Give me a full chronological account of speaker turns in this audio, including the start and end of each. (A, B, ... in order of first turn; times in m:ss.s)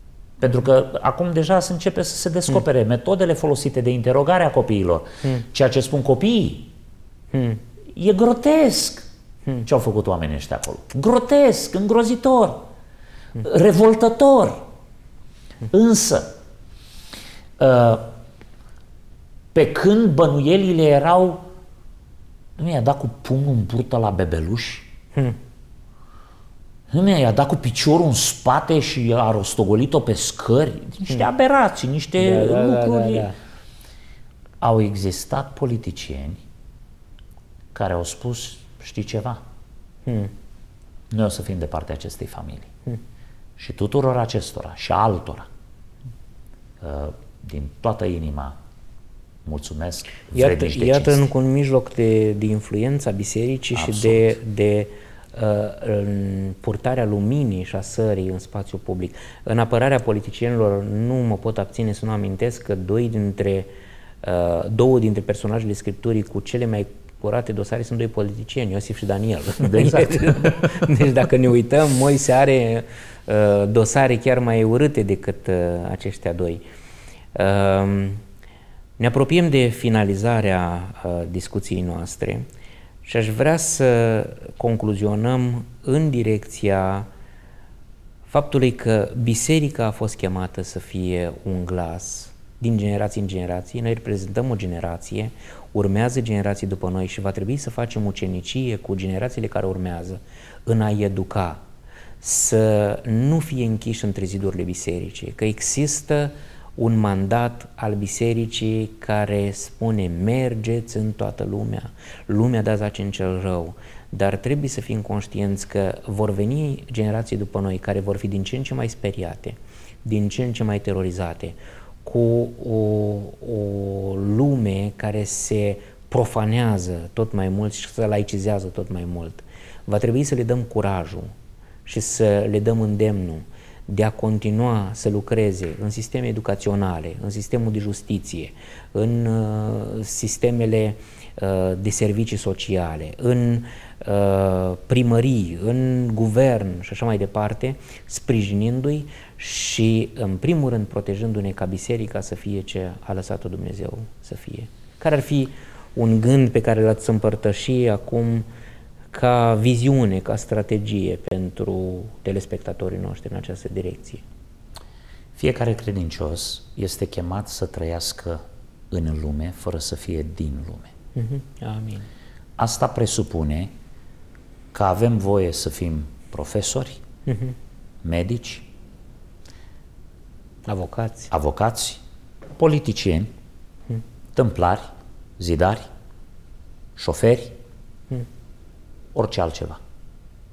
0:00.4-0:06.7 A
0:07.3-0:07.6 B
0:07.9-0:09.1 A
0:09.6-0:12.7 A
0:13.4-0:14.6 A
0:15.7-0:16.4 A
0:17.6-0:18.1 A
0:19.5-0:21.4 A
0:22.6-0:24.9 A
0:26.9-0:33.3 A
0:32.2-0:33.4 B
0:34.6-0:36.4 A
0:37.7-0:39.4 A
0:40.1-0:40.3 B
0:41.1-0:42.7 A
0:43.6-0:45.5 A
0:46.8-0:48.6 A
0:49.4-0:51.3 A
0:50.4-1:03.7 B
0:53.7-0:54.4 A
1:04.2-1:16.6 B
1:09.6-1:10.7 A
1:17.4-1:18.2 B
1:19.0-1:22.5 B
1:23.0-1:27.1 B
1:28.3-1:41.6 B
1:42.2-2:11.3 B
2:11.8-2:38.5 B
2:39.1-2:44.2 B
2:45.4-2:50.9 A
2:51.2-2:52.1 B
2:52.6-2:53.7 A
2:54.7-2:57.0 A
2:57.3-2:57.6 B
2:58.0-2:58.7 A
3:00.7-3:01.3 B
3:01.3-3:02.0 A
3:02.6-3:03.3 A
3:04.4-3:05.9 A
3:07.0-3:07.6 A
3:09.2-3:09.8 A